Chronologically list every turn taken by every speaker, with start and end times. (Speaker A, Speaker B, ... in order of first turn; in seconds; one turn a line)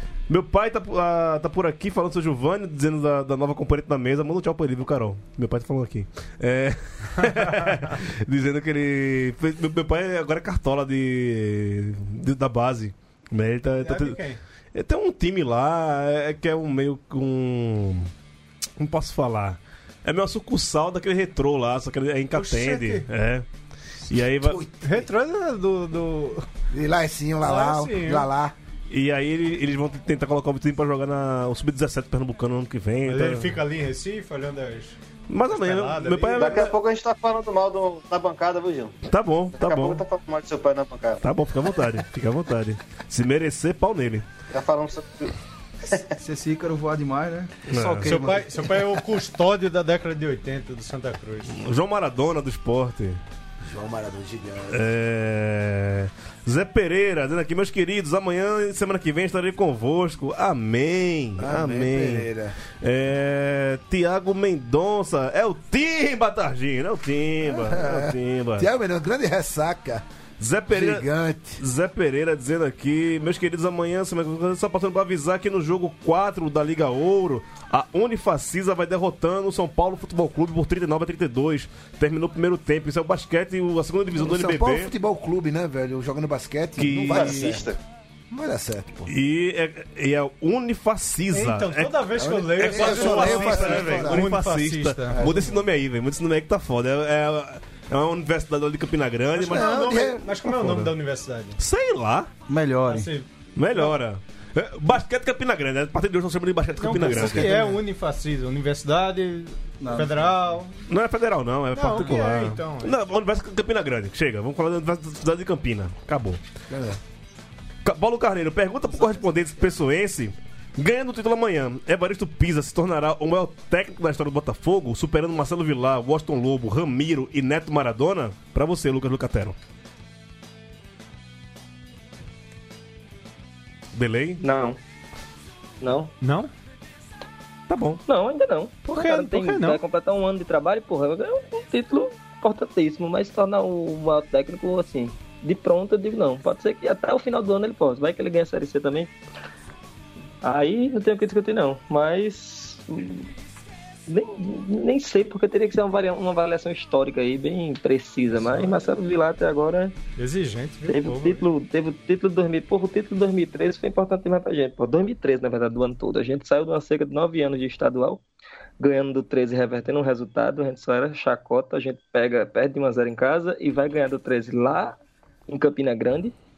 Speaker A: 0.3-18.1
Speaker B: 13.8-14.4
Speaker A: 18.8-23.5
Speaker B: 22.3-23.1
Speaker A: 24.1-24.6
Speaker C: 24.4-25.0
Speaker B: 24.8-26.5
Speaker C: 26.7-28.6
Speaker B: 27.4-28.3
Speaker A: 28.9-33.6
Speaker B: 33.1-35.0
Speaker A: 35.3-36.7
Speaker B: 35.5-36.6
Speaker D: 36.3-39.0
Speaker A: 39.1-40.0
Speaker D: 39.6-41.2
Speaker A: 41.2-44.3
Speaker D: 44.5-45.3
Speaker D: 45.8-46.1
Speaker E: 46.2-48.5
Speaker A: 47.7-48.4
Speaker B: 48.0-51.5
Speaker A: 51.5-53.2
Speaker C: 53.6-54.8
Speaker A: 54.7-62.3
Speaker C: 61.4-62.6
Speaker A: 62.8-68.7
Speaker C: 67.4-70.0
Speaker A: 70.4-71.1
Speaker C: 70.7-71.6
Speaker A: 71.6-84.9
Speaker C: 84.2-87.6
Speaker A: 86.8-87.5
Speaker D: 87.1-87.8
Speaker C: 88.3-89.1
Speaker A: 89.1-100.9
Speaker B: 91.3-95.5
Speaker C: 92.2-94.3
Speaker C: 95.2-95.4
Speaker B: 99.4-101.6
Speaker C: 99.4-100.3
Speaker A: 101.6-102.3
Speaker E: 102.5-103.1
Speaker B: 102.8-104.0
Speaker A: 103.6-107.7
Speaker B: 106.8-110.8
Speaker C: 107.1-107.6
Speaker E: 109.8-110.3
Speaker A: 110.9-116.4
Speaker B: 111.7-113.0
Speaker C: 116.7-117.0
Speaker A: 117.8-129.6
Speaker A: 133.9-134.4
Speaker F: 134.4-134.8
Speaker F: 135.8-136.1
Speaker B: 136.2-136.5
Speaker A: 137.7-138.0
Speaker F: 138.1-149.1
Speaker B: 138.9-139.8
Speaker F: 150.4-153.3
Speaker F: 154.1-160.0
Speaker B: 158.3-158.7
Speaker B: 160.2-161.5
Speaker F: 160.9-168.2
Speaker F: 168.8-176.3